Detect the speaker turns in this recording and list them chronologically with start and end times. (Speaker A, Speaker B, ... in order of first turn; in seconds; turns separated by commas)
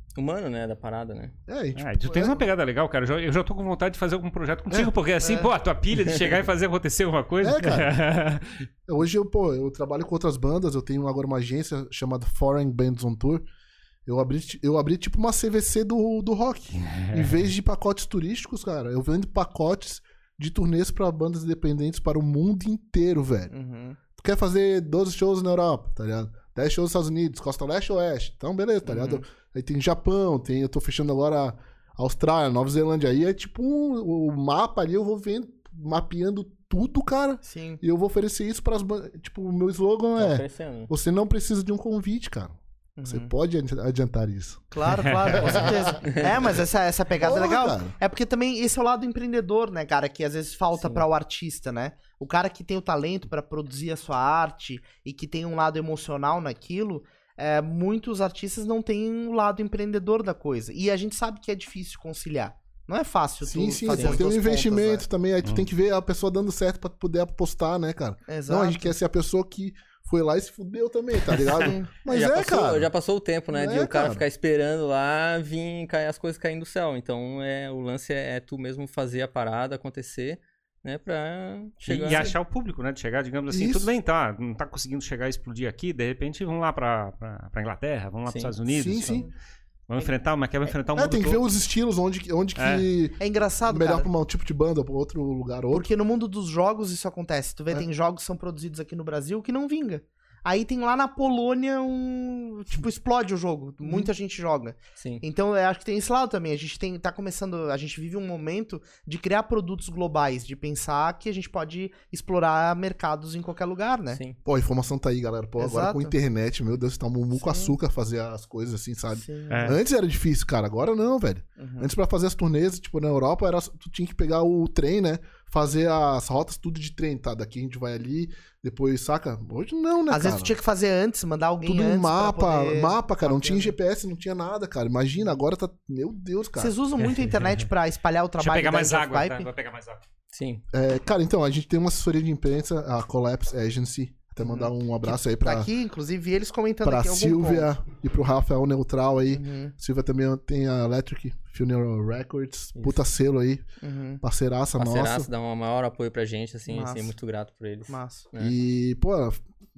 Speaker A: 0.1-1.3, Speaker B: 1.5-2.5, Speaker C: 1.8-8.7, Speaker D: 5.2-5.5, Speaker A: 5.9-6.3, Speaker B: 7.4-7.9, Speaker B: 8.9-13.4, Speaker B: 14.1-23.5, Speaker C: 16.7-17.4, Speaker D: 23.5-24.0, Speaker B: 24.1-44.7, Speaker D: 28.8-29.2, Speaker D: 37.4-37.8, Speaker A: 40.1-40.9, Speaker D: 43.0-43.3, Speaker D: 44.7-65.0, Speaker C: 45.0-45.6, Speaker B: 45.3-46.0, Speaker B: 47.2-48.0, Speaker A: 50.7-51.0, Speaker B: 63.4-72.9, Speaker A: 63.9-64.2, Speaker D: 68.3-68.9, Speaker D: 71.5-71.9, Speaker A: 72.0-82.3, Speaker B: 73.5-74.2, Speaker C: 81.8-89.3, Speaker B: 83.5-83.9, Speaker A: 88.2-88.5, Speaker B: 88.7-89.2, Speaker C: 89.9-91.4, Speaker B: 90.9-95.9, Speaker C: 92.5-92.8, Speaker D: 93.2-94.1, Speaker D: 95.7-114.2, Speaker B: 103.8-104.1, Speaker A: 114.1-114.4, Speaker B: 114.4-130.5, Speaker D: 115.6-116.2, Speaker D: 117.3-117.8, Speaker D: 119.1-119.8, Speaker C: 119.5-119.8, Speaker D: 121.6-121.9, Speaker D: 130.1-133.7, Speaker B: 131.7-136.7, Speaker D: 136.6-139.5, Speaker C: 137.0-137.5, Speaker C: 138.4-140.0, Speaker A: 140.3-140.6, Speaker B: 140.7-145.7, Speaker D: 144.4-147.7, Speaker B: 146.8-153.6, Speaker D: 149.3-149.7, Speaker A: 152.7-153.0, Speaker D: 153.8-154.2, Speaker B: 154.2-155.3, Speaker A: 154.8-158.5, Speaker D: 156.7-157.1, Speaker D: 157.9-158.2, Speaker B: 158.4-159.4